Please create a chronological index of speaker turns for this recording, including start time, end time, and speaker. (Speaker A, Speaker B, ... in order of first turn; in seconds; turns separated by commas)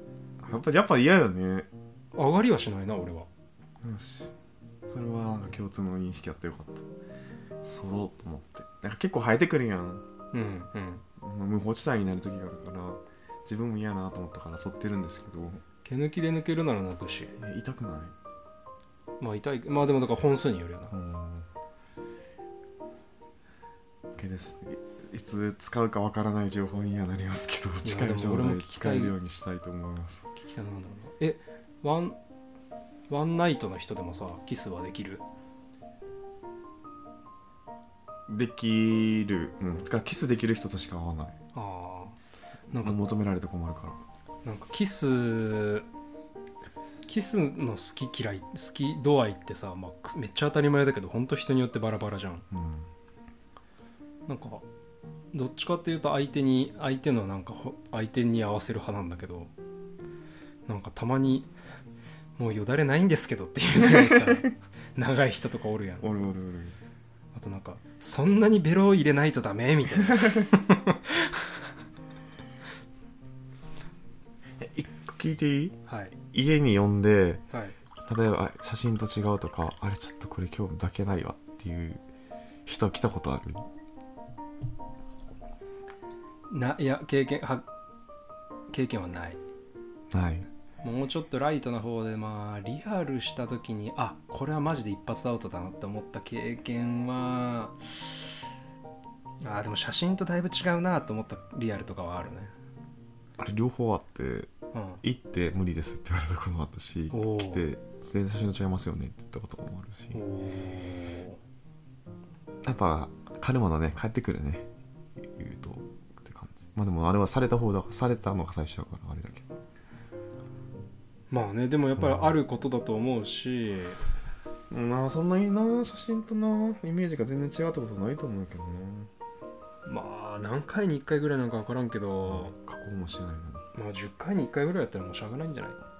Speaker A: 0.4-1.7, Speaker B: 2.1-3.3, Speaker A: 3.8-4.3, Speaker A: 4.9-6.9, Speaker A: 7.6-10.0, Speaker B: 10.3-11.0, Speaker A: 11.2-15.6, Speaker B: 15.8-17.4, Speaker A: 17.4-18.1, Speaker B: 19.2-20.9, Speaker A: 20.9-21.5, Speaker A: 24.1-30.3, Speaker B: 27.8-29.1, Speaker B: 30.3-32.2, Speaker B: 33.1-35.2, Speaker A: 38.3-41.4, Speaker B: 41.5-42.2, Speaker B: 42.7-43.0, Speaker A: 42.8-44.0, Speaker B: 44.4-45.9, Speaker B: 47.1-52.5, Speaker A: 52.5-52.9, Speaker B: 54.3-54.6, Speaker B: 55.3-59.5, Speaker B: 60.7-61.5, Speaker B: 62.4-66.2, Speaker A: 63.8-64.5, Speaker A: 66.0-66.8, Speaker B: 67.3-71.6, Speaker A: 70.1-70.4, Speaker A: 74.6-75.8, Speaker B: 75.9-76.2, Speaker A: 76.3-77.4, Speaker B: 77.5-77.8, Speaker A: 78.0-82.0, Speaker A: 82.7-83.7, Speaker B: 86.5-87.6, Speaker B: 88.7-89.4, Speaker A: 90.1-90.5, Speaker B: 90.8-98.0, Speaker B: 99.4-102.5, Speaker A: 103.4-104.5, Speaker B: 104.7-105.0, Speaker A: 105.0-110.2, Speaker B: 107.1-107.6, Speaker B: 110.1-111.4, Speaker A: 112.6-114.7, Speaker A: 115.2-119.5, Speaker B: 121.3-124.0, Speaker A: 122.0-122.4, Speaker A: 124.7-129.1, Speaker B: 129.8-132.5, Speaker A: 132.3-133.7, Speaker B: 133.7-135.8